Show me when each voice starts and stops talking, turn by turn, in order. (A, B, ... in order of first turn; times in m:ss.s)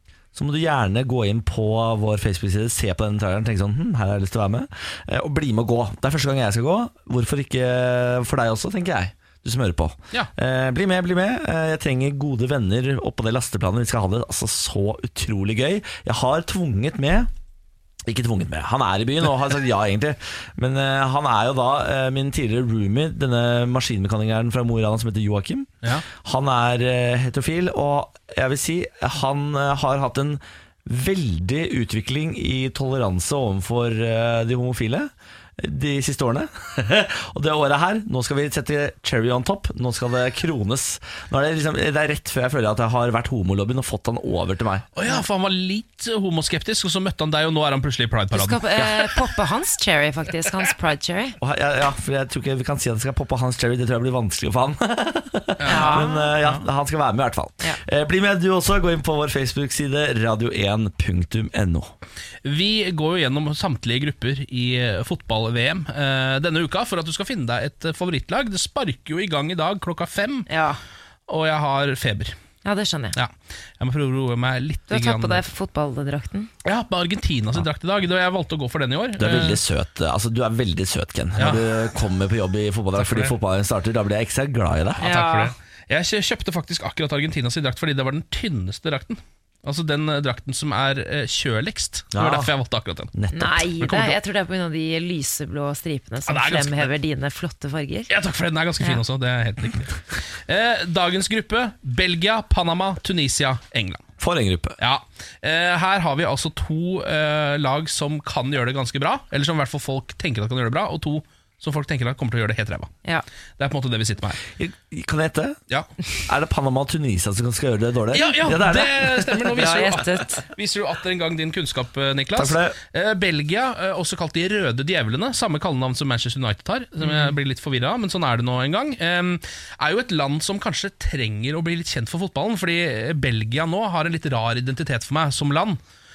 0:00.3-0:17.3 A
0:18.0-0:44.9 A
0:44.9-0:49.2 B
0:48.3-0:51.4 C
0:51.4-1:01.9 A
0:55.6-0:56.6 B
0:55.6-0:56.3 C
1:02.4-1:10.5 B
1:10.5-1:10.8 C
1:11.3-1:12.3 B
1:12.6-1:13.2 C
1:13.1-1:15.5 B
1:14.9-1:16.5 C
1:16.6-1:19.6 B
1:19.2-1:25.0 A
1:21.4-1:21.7 B
1:23.0-1:23.3 B
1:25.0-1:34.2 B
1:25.0-1:25.5 C
1:32.1-1:32.5 A
1:33.1-1:33.6 A
1:33.3-1:38.1 C
1:36.3-1:36.9 B
1:38.1-1:44.0 B
1:44.2-1:44.8 A
1:44.8-1:52.9 B
1:53.6-1:54.4 B
1:54.6-1:55.6 A
1:56.2-1:59.9 A
1:58.1-2:15.8 B
1:59.5-2:00.4 C
2:02.3-2:02.8 A
2:07.0-2:07.3 C